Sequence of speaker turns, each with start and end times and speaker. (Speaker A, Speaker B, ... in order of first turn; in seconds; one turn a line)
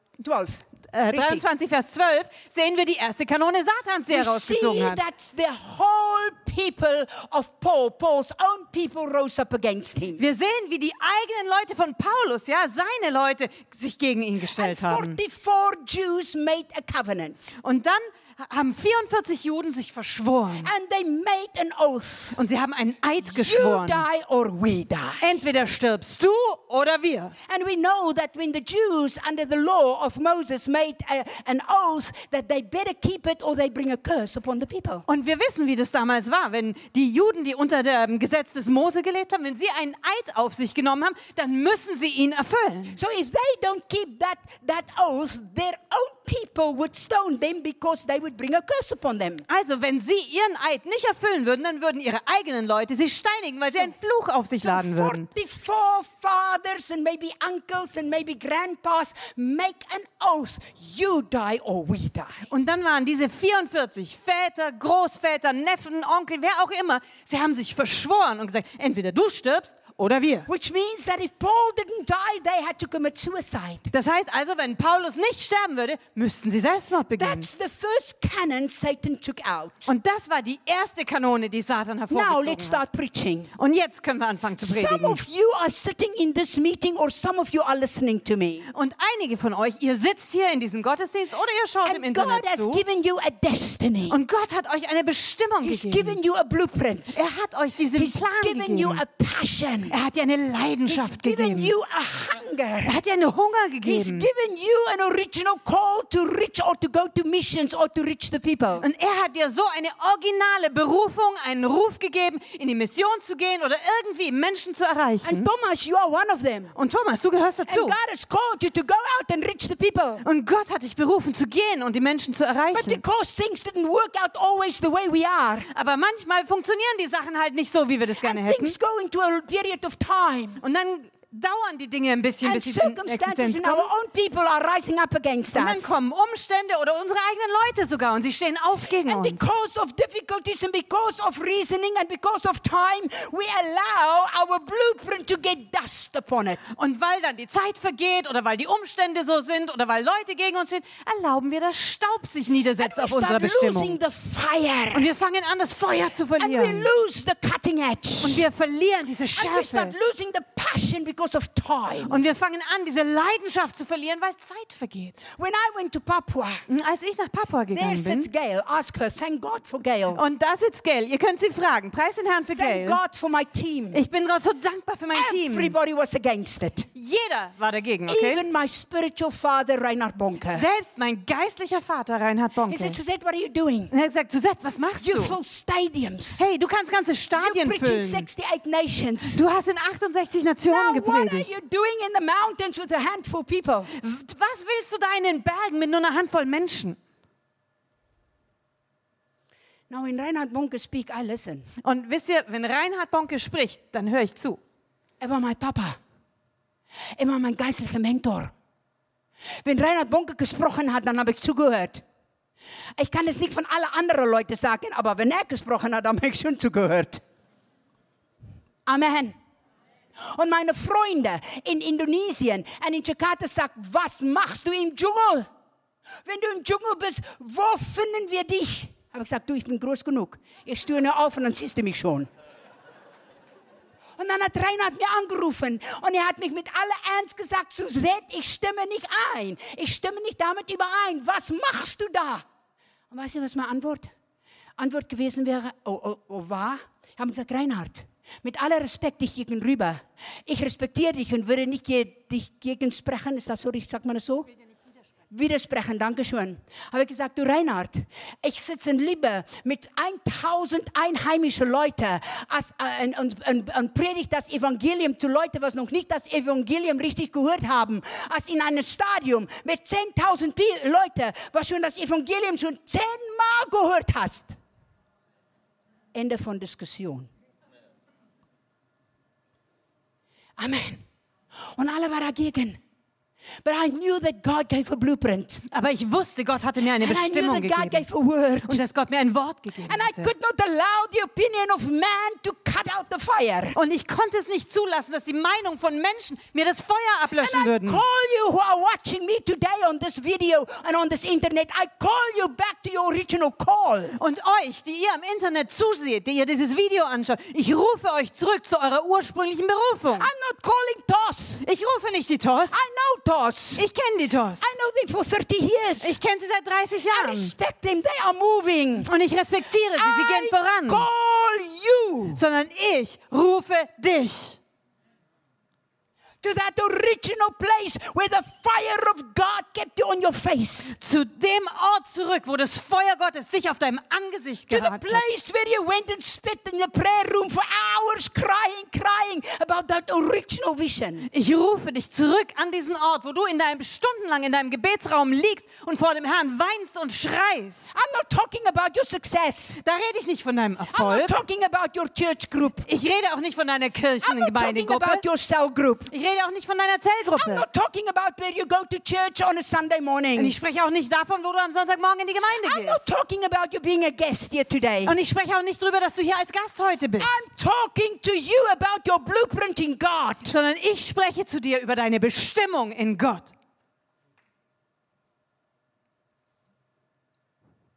Speaker A: 0.2-1.4
Speaker B: 0.9-5.0
Speaker A: 4.1-10.2
Speaker B: 10.2-15.2
Speaker A: 14.6-17.6
Speaker B: 17.6-20.7
Speaker A: 20.6-22.4
Speaker B: 22.4-24.1
Speaker A: 23.2-25.2
Speaker B: 25.2-27.4
Speaker A: 27.5-35.1
Speaker B: 35.1-43.0
Speaker A: 43.0-49.5
Speaker B: 49.5-55.3
Speaker A: 53.7-54.0
Speaker A: 54.6-62.4
Speaker B: 62.5-70.5
Speaker A: 70.5-73.9
Speaker B: 73.9-77.5
Speaker A: 77.2-79.9
Speaker B: 79.9-82.8
Speaker A: 82.1-83.5
Speaker B: 83.6-85.2
Speaker A: 84.6-88.7
Speaker B: 88.7-92.8
Speaker A: 91.8-94.2
Speaker B: 94.1-96.2
Speaker A: 95.6-97.2
Speaker B: 97.1-99.0
Speaker A: 98.0-100.0
Speaker B: 99.9-101.7
Speaker A: 100.9-103.0
Speaker B: 102.8-104.3
Speaker A: 103.8-108.9
Speaker B: 108.8-115.5
Speaker A: 115.2-116.7
Speaker B: 116.8-118.0
Speaker A: 117.7-120.2
Speaker B: 120.2-123.0
Speaker A: 122.7-125.7
Speaker B: 125.7-128.8
Speaker A: 128.2-130.6
Speaker B: 130.6-133.9
Speaker A: 132.4-135.9
Speaker B: 135.5-139.4
Speaker A: 139.1-146.7
Speaker B: 146.8-154.0
Speaker A: 152.8-155.1
Speaker B: 154.9-156.9
Speaker A: 156.4-158.5
Speaker B: 158.2-159.9
Speaker A: 159.4-162.2
Speaker B: 162.1-165.2
Speaker A: 165.3-166.7
Speaker B: 166.7-168.3
Speaker A: 167.7-170.2
Speaker B: 170.1-173.0
Speaker A: 172.4-174.0
Speaker B: 173.9-175.8
Speaker A: 175.1-176.9
Speaker B: 176.9-178.4
Speaker A: 178.1-180.7
Speaker B: 180.5-183.0
Speaker A: 182.7-183.9
Speaker B: 183.9-185.4
Speaker A: 185.0-186.4
Speaker B: 186.4-188.3
Speaker A: 187.3-189.4
Speaker B: 189.3-191.5
Speaker A: 190.7-193.9
Speaker B: 193.9-197.0
Speaker A: 199.9-201.7
Speaker B: 201.8-204.6
Speaker A: 205.2-206.0
Speaker A: 207.2-208.5
Speaker A: 209.6-212.0
Speaker A: 213.0-217.2
Speaker A: 218.9-219.3
Speaker A: 220.3-225.5
Speaker A: 226.2-232.3
Speaker A: 234.2-242.4
Speaker A: 243.1-244.1
Speaker A: 244.8-254.5
Speaker A: 255.3-274.6
Speaker A: 276.1-277.3
Speaker A: 280.6-281.0
Speaker A: 281.8-282.8
Speaker A: 283.6-285.6
Speaker B: 285.7-288.1
Speaker A: 287.0-288.8
Speaker B: 288.7-290.3
Speaker A: 289.9-293.8
Speaker B: 293.8-298.0
Speaker A: 297.4-304.2
Speaker B: 304.2-310.3
Speaker A: 310.2-311.6
Speaker B: 311.6-312.8
Speaker A: 312.7-313.9
Speaker B: 313.8-314.7
Speaker A: 314.6-316.2
Speaker B: 316.0-317.5
Speaker A: 317.1-319.1
Speaker B: 319.0-321.1
Speaker A: 319.9-322.4
Speaker B: 322.4-324.6
Speaker A: 326.4-331.0
Speaker B: 330.9-335.2
Speaker A: 334.7-341.3
Speaker B: 341.3-347.9
Speaker A: 347.9-349.8
Speaker B: 349.8-351.4
Speaker A: 350.9-352.9
Speaker B: 352.9-355.2
Speaker A: 354.2-356.1
Speaker B: 356.1-357.7
Speaker A: 357.4-360.6
Speaker B: 360.4-363.0
Speaker A: 362.6-365.1
Speaker B: 365.1-367.4
Speaker A: 367.2-370.5
Speaker B: 370.4-373.5